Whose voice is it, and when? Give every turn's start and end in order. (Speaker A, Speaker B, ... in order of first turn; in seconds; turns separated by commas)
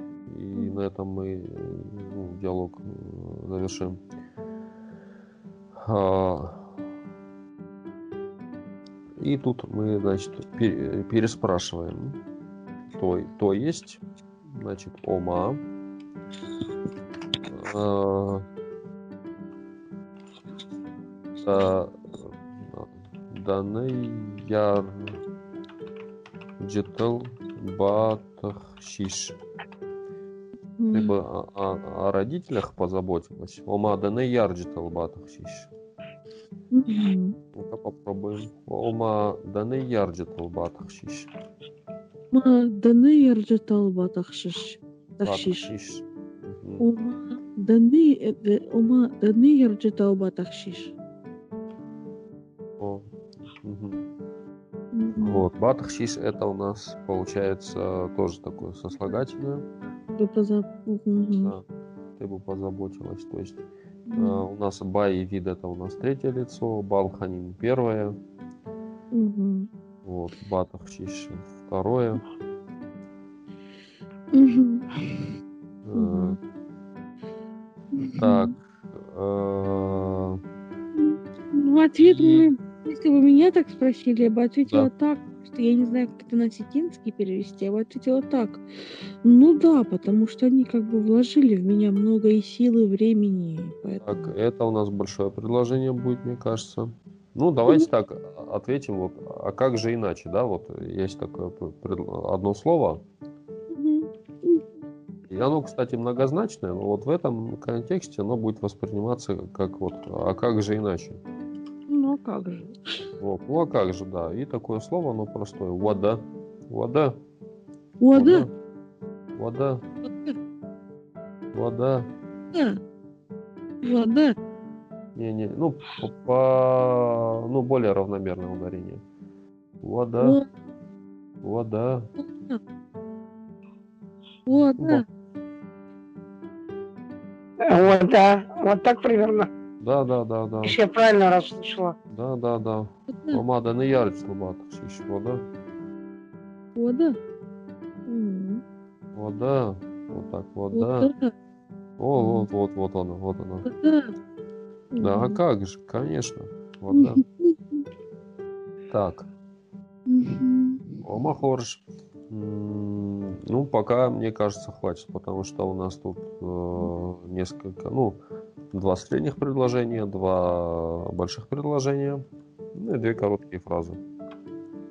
Speaker A: 0.3-4.0, Speaker B: 0.5-0.8, Speaker A: 5.8-6.7, Speaker A: 9.2-12.2, Speaker A: 12.9-15.6, Speaker A: 17.5-18.4, Speaker A: 21.4-25.2, Speaker A: 26.6-29.4, Speaker B: 30.8-31.1, Speaker A: 30.9-35.7, Speaker B: 36.7-37.4, Speaker A: 37.5-41.3, Speaker B: 42.3-45.7, Speaker A: 45.2-46.9, Speaker B: 46.8-50.9, Speaker A: 52.8-53.0, Speaker A: 53.6-54.0, Speaker B: 54.9-55.4, Speaker A: 55.2-59.6, Speaker B: 60.2-61.5, Speaker A: 62.2-63.6, Speaker B: 64.1-64.4, Speaker A: 64.2-68.2, Speaker B: 69.1-69.7, Speaker A: 70.0-72.2, Speaker B: 74.3-75.3, Speaker A: 75.8-76.4, Speaker B: 75.9-76.4, Speaker B: 78.0-78.5, Speaker A: 78.2-80.4, Speaker B: 81.0-88.6, Speaker A: 82.0-82.5, Speaker B: 89.2-94.3, Speaker A: 94.0-103.0, Speaker B: 103.7-104.7, Speaker A: 105.3-111.2, Speaker B: 111.9-112.8, Speaker A: 113.2-117.2, Speaker B: 118.0-118.5, Speaker A: 118.1-118.5, Speaker A: 119.4-119.8, Speaker B: 120.0-120.4, Speaker A: 121.5-122.1, Speaker B: 122.5-122.8, Speaker B: 123.8-124.4, Speaker A: 125.2-129.0, Speaker A: 129.8-130.4, Speaker B: 130.2-130.5, Speaker A: 131.4-132.1, Speaker B: 132.2-132.6, Speaker B: 134.5-135.1, Speaker A: 134.6-135.1, Speaker C: 137.6-139.5, Speaker A: 139.8-140.8, Speaker C: 140.7-141.9, Speaker A: 142.1-145.4, Speaker B: 143.1-143.4, Speaker B: 146.8-147.2, Speaker B: 148.1-148.6, Speaker A: 149.1-151.1, Speaker B: 150.7-151.3, Speaker A: 152.0-153.7, Speaker B: 152.2-152.5, Speaker B: 153.6-154.1, Speaker B: 154.9-155.4, Speaker A: 155.0-157.2, Speaker B: 156.9-157.8, Speaker A: 158.9-159.3, Speaker B: 160.1-161.0, Speaker A: 161.0-168.2, Speaker A: 168.7-172.2, Speaker A: 172.8-174.0